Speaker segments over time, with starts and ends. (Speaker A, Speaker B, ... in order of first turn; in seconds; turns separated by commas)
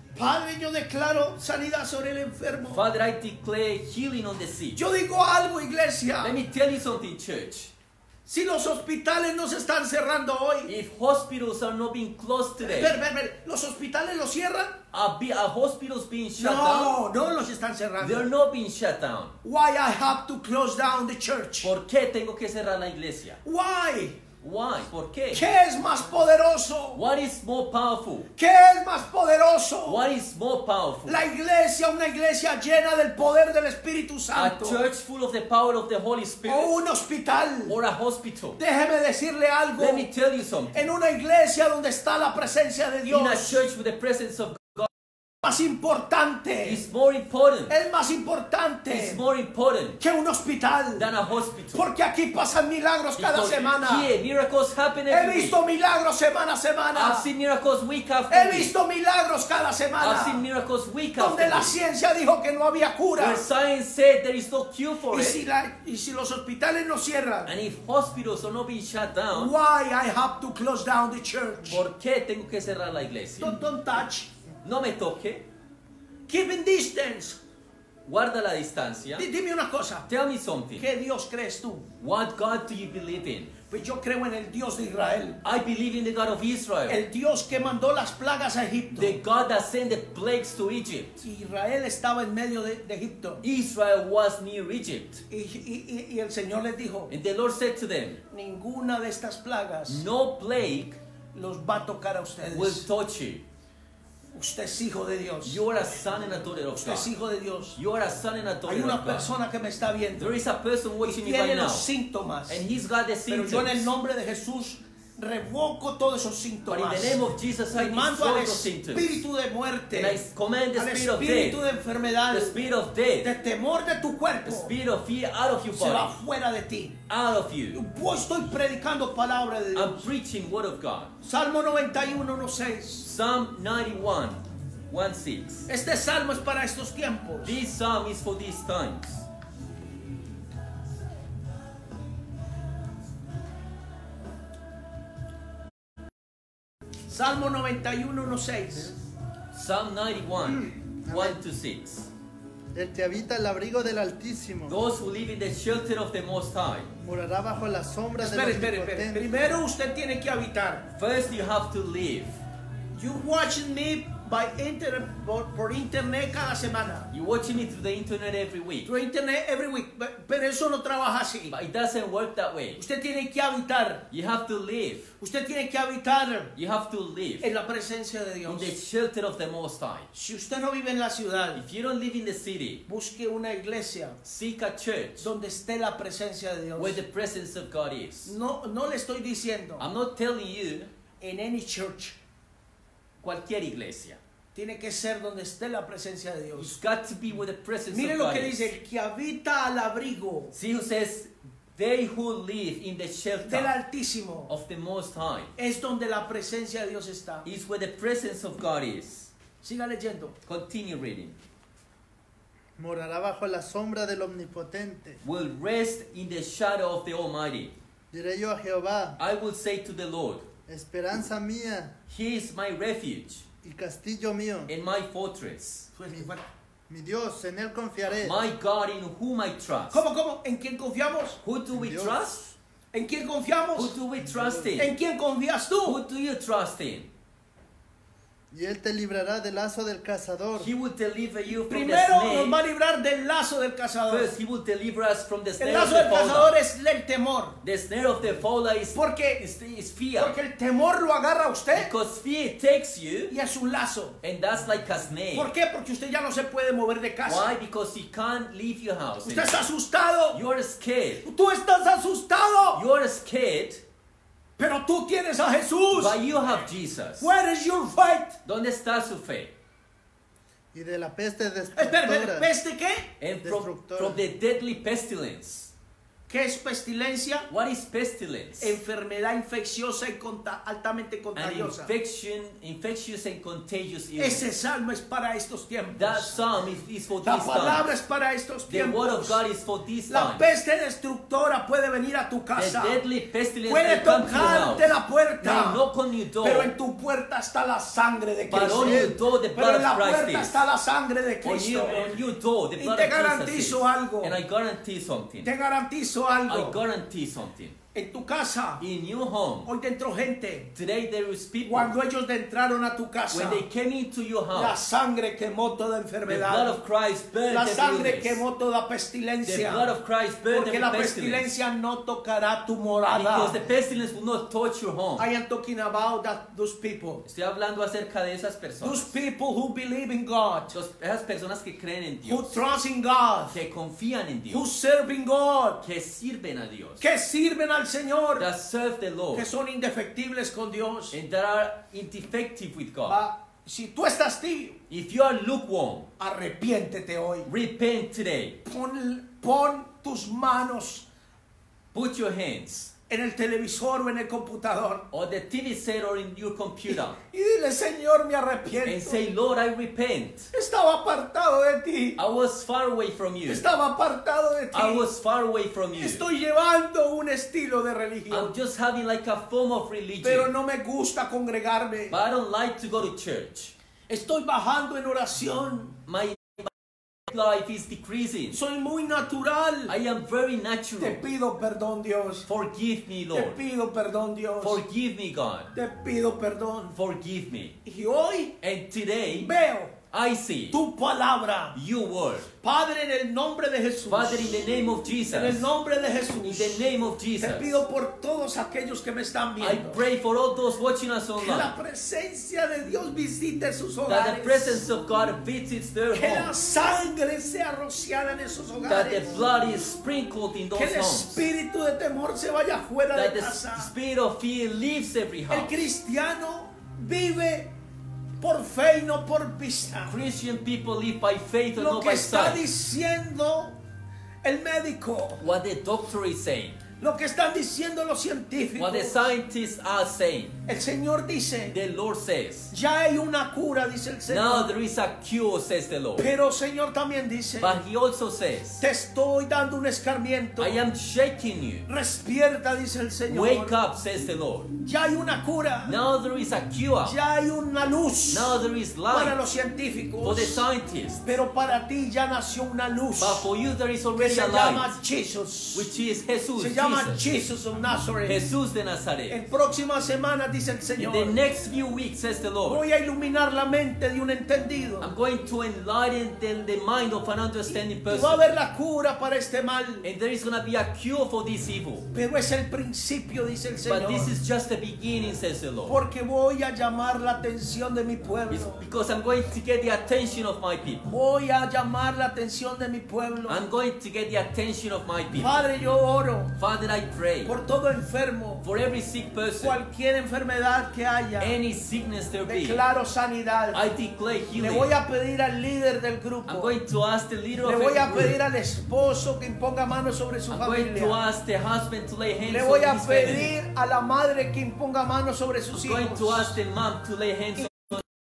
Speaker A: 0.1-2.8, Speaker B: 2.7-4.8, Speaker A: 4.7-6.4, Speaker B: 6.2-7.7, Speaker A: 8.2-10.7, Speaker B: 10.7-13.0, Speaker A: 12.6-14.8, Speaker B: 14.9-17.0, Speaker A: 16.4-18.3, Speaker B: 18.0-19.4, Speaker A: 19.4-21.7, Speaker B: 21.6-23.4, Speaker A: 23.4-24.2, Speaker B: 24.4-25.4, Speaker A: 25.3-27.0, Speaker B: 26.9-28.3, Speaker A: 28.4-30.0, Speaker B: 29.9-31.2, Speaker A: 31.1-34.8, Speaker B: 34.3-36.8, Speaker A: 36.4-37.8, Speaker B: 37.6-38.6, Speaker A: 38.6-40.1, Speaker B: 39.8-40.9, Speaker A: 40.7-43.6, Speaker B: 43.1-44.9, Speaker A: 45.4-46.8, Speaker B: 46.6-47.7, Speaker A: 47.7-49.2, Speaker B: 48.9-50.0, Speaker A: 50.0-51.1, Speaker B: 51.0-51.8, Speaker A: 51.7-54.1, Speaker B: 53.2-55.6, Speaker A: 55.1-57.3, Speaker B: 56.9-58.7, Speaker A: 58.3-60.4, Speaker B: 60.0-61.8, Speaker A: 61.2-63.4, Speaker B: 63.2-65.4, Speaker A: 65.1-67.5, Speaker B: 67.5-69.5, Speaker A: 69.3-71.8, Speaker B: 71.7-73.6, Speaker A: 73.4-74.3, Speaker B: 74.6-75.5, Speaker A: 76.3-77.4, Speaker B: 78.0-79.2, Speaker A: 79.2-80.1, Speaker B: 80.1-80.8, Speaker A: 80.8-81.9, Speaker B: 82.0-83.5, Speaker A: 83.7-85.4, Speaker B: 85.4-87.0, Speaker A: 86.9-89.2, Speaker B: 89.0-91.2, Speaker A: 91.2-93.4, Speaker B: 93.4-95.2, Speaker A: 95.3-97.1, Speaker B: 97.1-98.2, Speaker A: 98.3-100.0, Speaker B: 99.9-101.0, Speaker A: 101.3-102.9, Speaker B: 102.5-103.4, Speaker A: 104.3-107.8, Speaker B: 105.4-107.1, Speaker B: 107.7-109.3, Speaker A: 108.7-110.3, Speaker B: 110.2-111.9, Speaker A: 111.0-112.6, Speaker B: 112.5-113.9, Speaker A: 113.3-117.2, Speaker B: 116.7-119.2, Speaker A: 117.7-120.2, Speaker B: 119.9-121.6, Speaker A: 120.8-122.6, Speaker B: 122.3-123.3, Speaker A: 123.2-124.7, Speaker B: 124.4-126.2, Speaker A: 125.7-127.0, Speaker B: 127.1-127.8, Speaker A: 127.7-130.1, Speaker B: 129.7-131.1, Speaker A: 131.2-133.1, Speaker B: 133.0-135.7, Speaker A: 135.7-137.6, Speaker B: 137.4-139.2, Speaker A: 147.1-148.9, Speaker B: 149.5-152.1, Speaker C: 150.5-151.4, Speaker C: 152.7-154.8, Speaker B: 154.7-156.9, Speaker C: 157.0-159.4, Speaker A: 158.2-160.9, Speaker B: 160.9-162.3, Speaker A: 162.9-167.1, Speaker B: 167.1-168.9, Speaker A: 168.8-171.5, Speaker B: 171.5-172.8, Speaker A: 172.8-174.0, Speaker B: 174.1-175.1, Speaker A: 175.2-176.5, Speaker B: 176.6-177.5, Speaker A: 177.4-178.7, Speaker B: 178.4-180.1, Speaker A: 180.1-181.6, Speaker B: 181.6-182.8, Speaker A: 182.9-184.2, Speaker B: 184.2-185.3, Speaker A: 185.2-187.0, Speaker B: 186.8-188.3, Speaker A: 188.2-189.9, Speaker B: 189.8-190.9, Speaker A: 191.2-192.2, Speaker B: 193.2-194.2, Speaker A: 194.5-196.7, Speaker B: 196.6-198.7, Speaker A: 197.9-200.5, Speaker B: 200.5-203.7, Speaker A: 203.4-204.5, Speaker B: 204.5-205.5, Speaker A: 205.6-207.5, Speaker B: 207.4-209.3, Speaker A: 209.6-210.4, Speaker B: 210.4-211.3, Speaker C: 212.8-215.2, Speaker B: 215.2-217.7, Speaker C: 218.1-219.2, Speaker B: 219.2-220.4, Speaker C: 220.7-221.9, Speaker B: 222.1-223.4, Speaker C: 223.6-224.7, Speaker B: 224.7-225.9, Speaker A: 225.9-226.4, Speaker C: 226.9-228.4, Speaker B: 228.2-230.0, Speaker A: 229.9-231.4, Speaker B: 231.4-232.5, Speaker C: 231.7-232.3, Speaker A: 232.9-233.9, Speaker B: 233.7-234.9, Speaker C: 234.2-234.7, Speaker A: 234.8-236.0, Speaker B: 235.8-237.1, Speaker C: 238.5-240.7, Speaker B: 240.6-242.6, Speaker A: 241.5-244.3, Speaker B: 244.1-246.6, Speaker A: 245.6-247.6, Speaker B: 247.6-250.3, Speaker A: 248.9-249.4, Speaker A: 250.2-251.9, Speaker B: 251.7-253.3, Speaker A: 253.3-254.2, Speaker B: 254.2-255.5, Speaker A: 255.3-257.5, Speaker B: 257.2-259.6, Speaker A: 259.2-260.4, Speaker B: 260.3-261.2, Speaker A: 261.2-262.8, Speaker B: 262.7-263.8, Speaker A: 264.6-266.2, Speaker B: 265.9-267.3, Speaker A: 267.2-268.4, Speaker B: 268.4-269.5, Speaker C: 270.7-272.5, Speaker A: 271.8-273.1, Speaker B: 273.2-275.7, Speaker C: 273.4-274.2, Speaker A: 276.3-277.5, Speaker B: 277.5-278.8, Speaker A: 278.6-281.9, Speaker B: 281.3-284.4, Speaker A: 284.2-286.4, Speaker B: 285.9-287.9, Speaker A: 287.2-289.4, Speaker B: 288.7-290.5, Speaker A: 290.1-293.0, Speaker B: 292.5-296.7, Speaker A: 293.6-295.8, Speaker A: 296.4-302.2, Speaker B: 298.5-300.6, Speaker C: 298.7-299.2, Speaker B: 301.4-305.5, Speaker A: 302.8-304.4, Speaker A: 305.4-306.8, Speaker B: 306.5-307.8, Speaker A: 307.9-308.8, Speaker B: 308.8-309.7, Speaker A: 309.6-310.7, Speaker B: 310.7-311.9, Speaker A: 311.6-313.6, Speaker B: 313.3-314.8, Speaker A: 314.5-316.8, Speaker B: 316.3-318.4, Speaker A: 317.5-319.9, Speaker B: 319.4-321.5, Speaker A: 320.5-323.6, Speaker B: 323.1-325.2, Speaker A: 325.2-327.2, Speaker B: 327.2-329.1, Speaker A: 328.8-330.7, Speaker B: 330.7-332.6, Speaker A: 332.2-333.6, Speaker B: 333.5-334.6, Speaker A: 334.5-335.8, Speaker B: 335.8-337.0, Speaker A: 337.0-338.5, Speaker B: 338.4-339.5, Speaker A: 339.3-341.1, Speaker B: 341.1-343.2, Speaker A: 343.0-344.8, Speaker B: 344.9-346.1, Speaker A: 346.2-347.5, Speaker B: 347.5-348.6, Speaker A: 348.6-351.1, Speaker B: 351.9-352.9, Speaker A: 353.1-355.0, Speaker B: 355.1-357.2, Speaker A: 356.9-359.2, Speaker B: 358.8-360.5, Speaker A: 360.5-362.2, Speaker B: 362.2-363.6, Speaker A: 363.5-365.1, Speaker B: 364.7-366.2, Speaker A: 365.9-368.5, Speaker B: 368.3-370.5, Speaker A: 370.2-372.2, Speaker B: 372.1-373.7, Speaker A: 374.1-376.0, Speaker B: 376.1-376.7, Speaker B: 377.2-378.6, Speaker A: 378.5-379.9, Speaker B: 379.9-381.2, Speaker A: 381.0-382.5, Speaker B: 382.5-383.6, Speaker A: 383.3-384.8, Speaker B: 384.6-385.7, Speaker A: 385.7-386.9, Speaker B: 386.9-387.8, Speaker A: 387.8-388.6, Speaker B: 388.6-389.5, Speaker A: 389.4-389.9, Speaker B: 390.1-390.8, Speaker A: 390.7-391.8, Speaker B: 391.7-392.5, Speaker A: 392.6-394.6, Speaker B: 394.1-395.7, Speaker A: 395.3-396.9, Speaker B: 396.3-397.8, Speaker A: 397.4-400.0, Speaker B: 399.6-401.7, Speaker A: 401.4-404.8, Speaker B: 404.1-406.5, Speaker A: 406.1-409.5, Speaker B: 408.9-411.5, Speaker A: 410.7-413.9, Speaker B: 413.1-415.8, Speaker A: 415.5-417.7, Speaker A: 418.4-420.1, Speaker B: 420.1-422.7, Speaker A: 421.8-423.8, Speaker A: 424.4-425.4, Speaker B: 425.4-426.8, Speaker A: 427.0-429.2, Speaker B: 428.8-430.6, Speaker A: 430.6-431.7, Speaker B: 431.7-432.7, Speaker A: 432.7-434.7, Speaker B: 434.3-436.3, Speaker A: 436.2-437.8, Speaker B: 437.6-438.8, Speaker A: 438.8-440.8, Speaker B: 440.6-441.9, Speaker A: 441.9-443.7, Speaker B: 443.3-444.7, Speaker A: 444.8-446.0, Speaker B: 445.8-447.2, Speaker A: 447.0-448.6, Speaker B: 448.3-449.4, Speaker A: 449.1-450.6, Speaker B: 450.2-451.3, Speaker A: 451.2-453.4, Speaker B: 453.2-454.9, Speaker A: 454.1-455.9, Speaker B: 455.7-457.4, Speaker A: 456.6-458.5, Speaker B: 458.2-459.4, Speaker A: 459.3-461.4, Speaker B: 461.0-462.8, Speaker A: 462.6-465.1, Speaker B: 465.0-468.4, Speaker A: 467.7-470.1, Speaker B: 470.0-472.1, Speaker A: 472.1-474.3, Speaker B: 473.9-476.0, Speaker A: 475.9-478.8, Speaker B: 478.5-481.0, Speaker A: 481.0-483.6, Speaker B: 483.5-485.6, Speaker A: 485.3-486.6, Speaker B: 486.6-487.5, Speaker A: 487.4-488.6, Speaker B: 488.6-489.8, Speaker A: 489.6-491.6, Speaker B: 491.4-492.8, Speaker A: 492.4-493.9, Speaker B: 493.7-494.9, Speaker A: 494.6-496.7, Speaker B: 496.5-498.4, Speaker A: 497.6-501.2, Speaker B: 500.5-503.5, Speaker A: 502.5-506.5, Speaker B: 505.7-508.0